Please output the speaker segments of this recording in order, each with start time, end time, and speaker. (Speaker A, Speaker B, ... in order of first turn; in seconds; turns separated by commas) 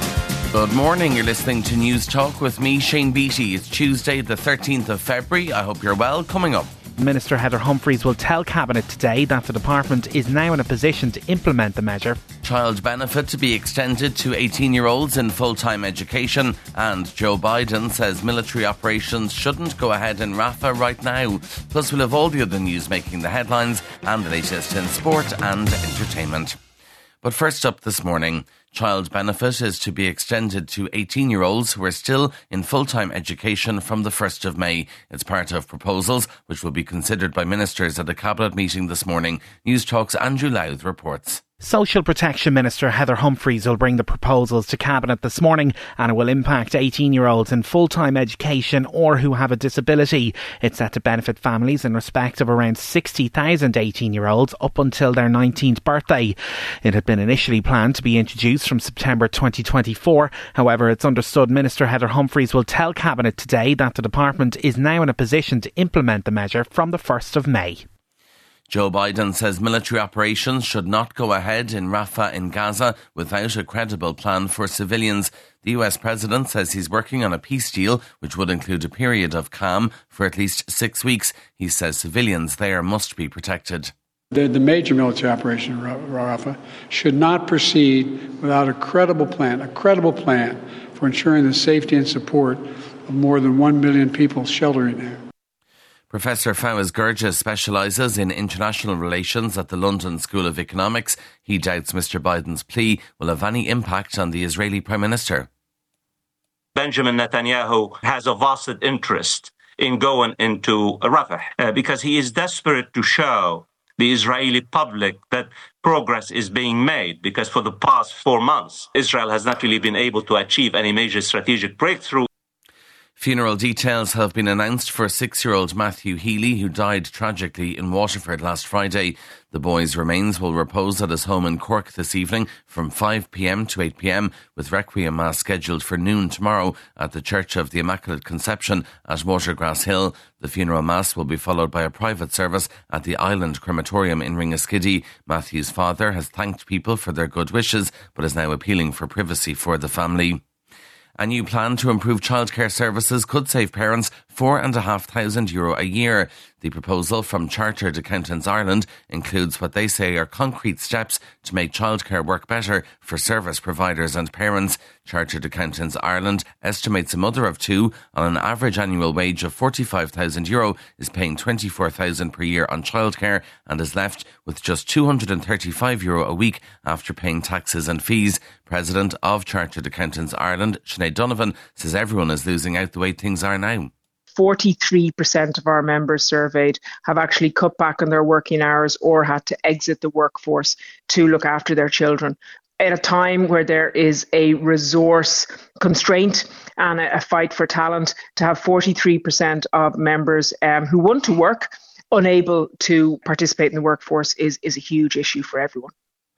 Speaker A: 0.5-6.7, Speaker B: 7.0-12.2, Speaker A: 12.4-26.6, Speaker A: 27.2-41.4, Speaker B: 41.6-67.8, Speaker A: 68.7-83.9, Speaker C: 84.3-95.2, Speaker A: 96.1-105.5, Speaker D: 106.7-122.3, Speaker A: 123.2-150.4, Speaker A: 151.2-183.9, Speaker E: 184.3-205.9